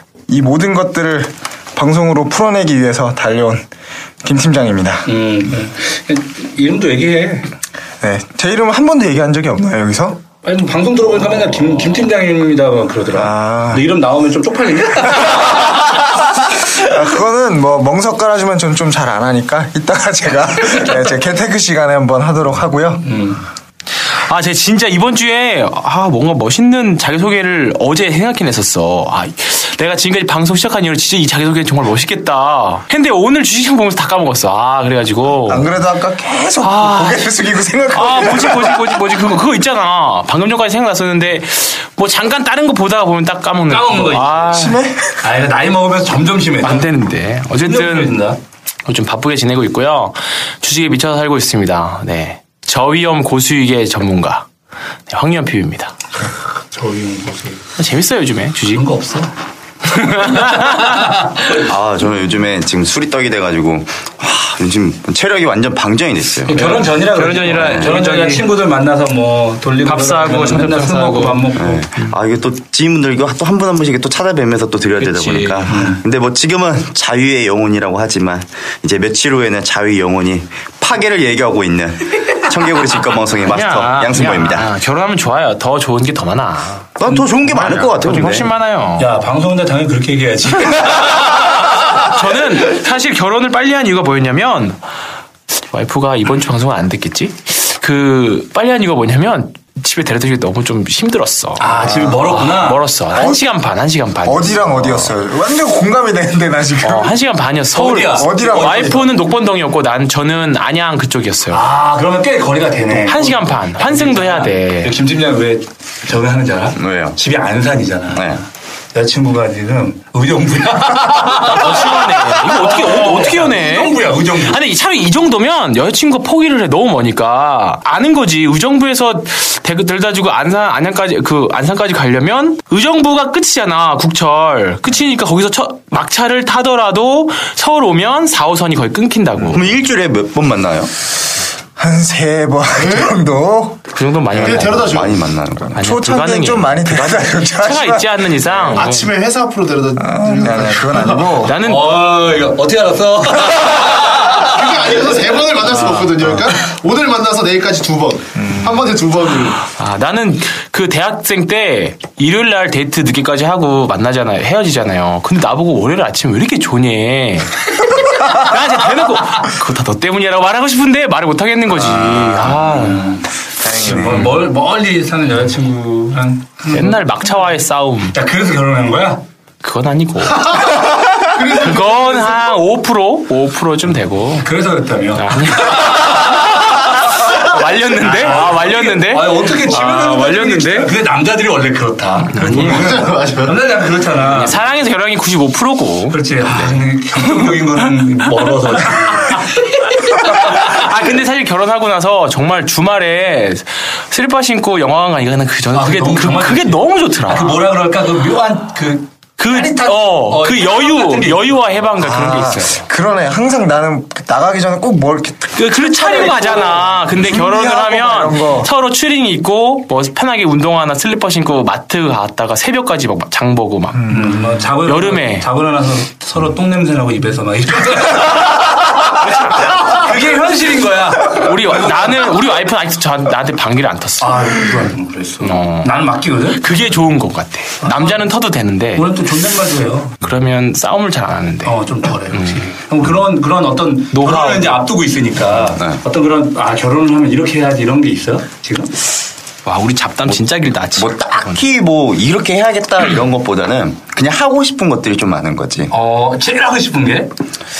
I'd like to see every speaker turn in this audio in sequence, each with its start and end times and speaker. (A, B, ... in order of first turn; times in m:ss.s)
0:00.3-0:03.7 A
0:04.2-0:05.1 A
0:05.0-0:07.5 B
0:08.0-0:10.2 A
0:10.4-0:16.4 B
0:13.1-0:13.9 A
0:16.7-0:23.1 A
0:23.0-0:23.4 B
0:24.1-0:35.7 C
0:35.3-0:39.0 A
0:36.6-0:37.3 C
0:37.9-0:44.8 C
0:43.7-0:46.9 B
0:44.5-0:45.2 A
0:46.6-0:48.2 C
0:47.5-0:48.4 B
0:48.8-0:54.5 C
0:55.1-0:56.0 C
0:56.7-0:57.6 B
0:57.8-0:58.9 C
0:58.7-0:59.3 B
0:59.9-1:01.0 C
1:00.3-1:01.0 B
1:01.5-1:06.8 D
1:06.5-1:11.8 B
1:06.5-1:08.5 C
1:07.5-1:07.9 D
1:09.8-1:12.1 C
1:11.6-1:24.7 D
1:15.0-1:15.7 C
1:15.7-1:16.0 B
1:23.4-1:26.9 C
1:27.0-1:28.5 D
1:27.4-1:29.1 C
1:29.0-1:31.8 B
1:31.9-1:34.8 C
1:35.6-1:45.2 C
1:41.6-1:42.9 B
1:43.1-1:43.4 A
1:44.2-1:47.1 A
1:46.8-1:51.6 C
1:47.7-1:49.1 B
1:48.2-1:49.0 A
1:51.5-2:04.6 B
1:53.0-1:54.9 C
1:56.8-1:57.2 D
1:58.1-1:58.4 D
2:01.4-2:19.7 C
2:19.5-2:20.9 D
2:21.8-2:23.8 A
2:22.8-2:23.1 E
2:23.9-2:25.0 C
2:24.3-2:25.2 E
2:24.5-2:25.8 D
2:25.6-2:28.2 A
2:25.7-2:29.1 C
2:28.6-2:31.3 E
2:30.0-2:31.6 A
2:31.4-2:32.0 C
2:31.6-2:35.1 B
2:34.2-2:39.6 E
2:35.7-2:36.1 C
2:39.6-2:53.2 C
2:52.4-2:57.5 B
2:53.6-2:54.3 A
2:56.7-2:58.2 C
2:58.1-2:59.2 B
2:59.6-3:04.5 C
3:01.2-3:02.5 E
3:04.4-3:14.6 B
3:05.2-3:10.9 C
3:12.3-3:12.9 C
3:12.5-3:13.6 E
3:14.3-3:17.5 C
3:16.1-3:20.8 B
3:20.1-3:27.6 C
3:25.7-3:31.8 B
3:29.4-3:32.8 C
3:32.0-3:38.7 A
3:35.6-3:44.3 C
3:44.1-3:52.2 B
3:44.8-3:45.5 C
3:51.2-3:54.7 C
3:54.2-3:56.6 B
3:55.4-3:55.9 C
3:56.5-3:59.1 C
3:57.8-3:58.2 B
3:58.9-4:00.2 B
4:00.2-4:01.8 C
4:01.6-4:08.9 B
4:02.3-4:02.7 C
4:04.1-4:04.8 C
4:05.7-4:06.0 D
4:09.6-4:11.6 C
4:10.9-4:15.9 D
4:15.9-4:17.3 B